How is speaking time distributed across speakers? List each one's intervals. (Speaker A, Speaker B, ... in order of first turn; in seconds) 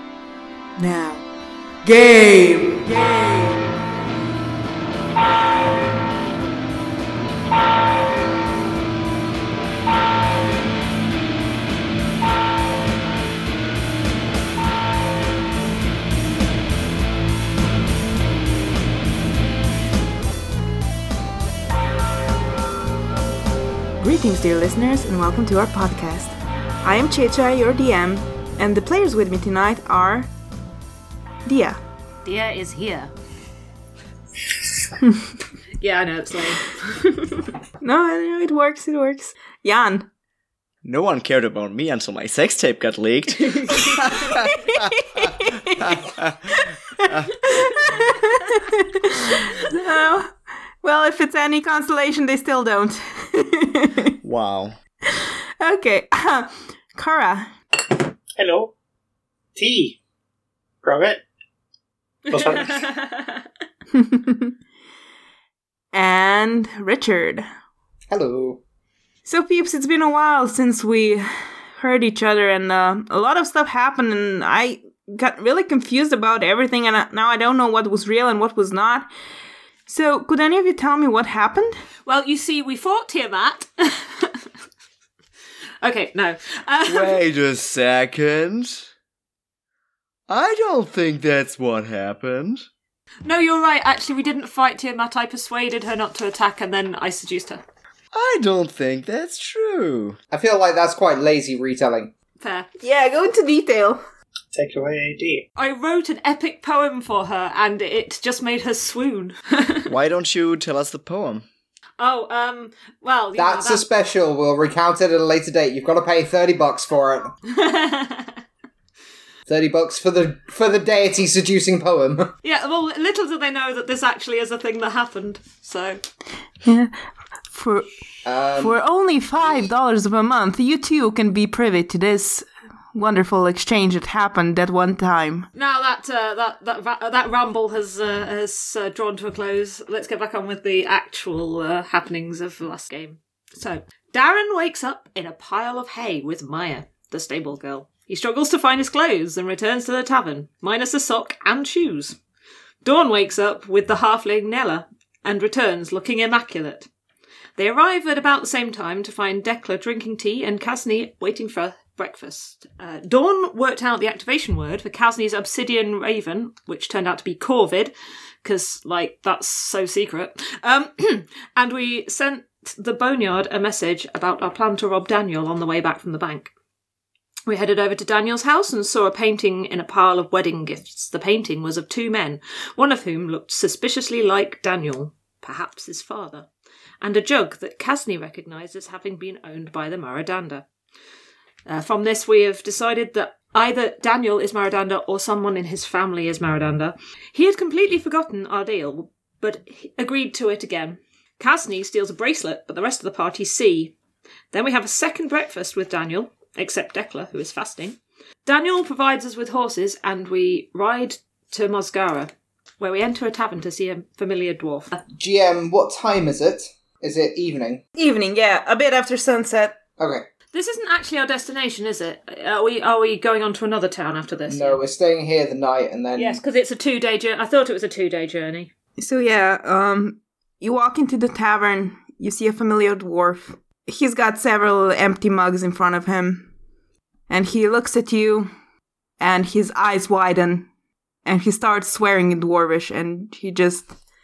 Speaker A: 0.8-1.2, 1.8-3.6, 24.0-30.3, 31.4-31.8, 37.8-40.0, 44.3-46.0, 46.5-54.1, 55.1-57.5, 63.9-64.5, 65.9-67.5, 69.2-71.2, 71.8-79.1, 79.9-81.8, 102.8-104.0, 126.6-127.0, 127.5-127.9, 128.6-135.5, 218.0-219.8, 229.0-236.5, 237.3-238.5, 239.2-240.7, 241.2-243.9
Speaker B: 32.2-33.1, 35.8-37.5, 62.3-63.4, 82.0-84.4, 85.8-87.2, 93.2-97.6, 102.4-102.7, 105.6-109.9, 112.0-113.8, 117.5-118.4, 122.4-126.0, 135.6-152.2, 152.8-156.9, 157.6-167.9, 168.4-176.5, 177.5-186.5, 187.0-190.6, 191.7-203.9, 204.5-215.0, 220.5-224.8, 226.2-228.7
Speaker C: 40.8-47.5, 54.2-54.8, 86.9-88.8, 90.3-92.7, 98.1-100.2, 109.9-111.4
Speaker D: 58.4-58.7, 59.5-60.0, 60.8-61.2, 62.3-62.8, 104.5-105.4
Speaker E: 68.1-68.6, 100.3-102.1, 113.3-117.4, 119.5-122.3, 128.2-128.8, 215.1-217.8, 220.0-220.3, 224.5-226.4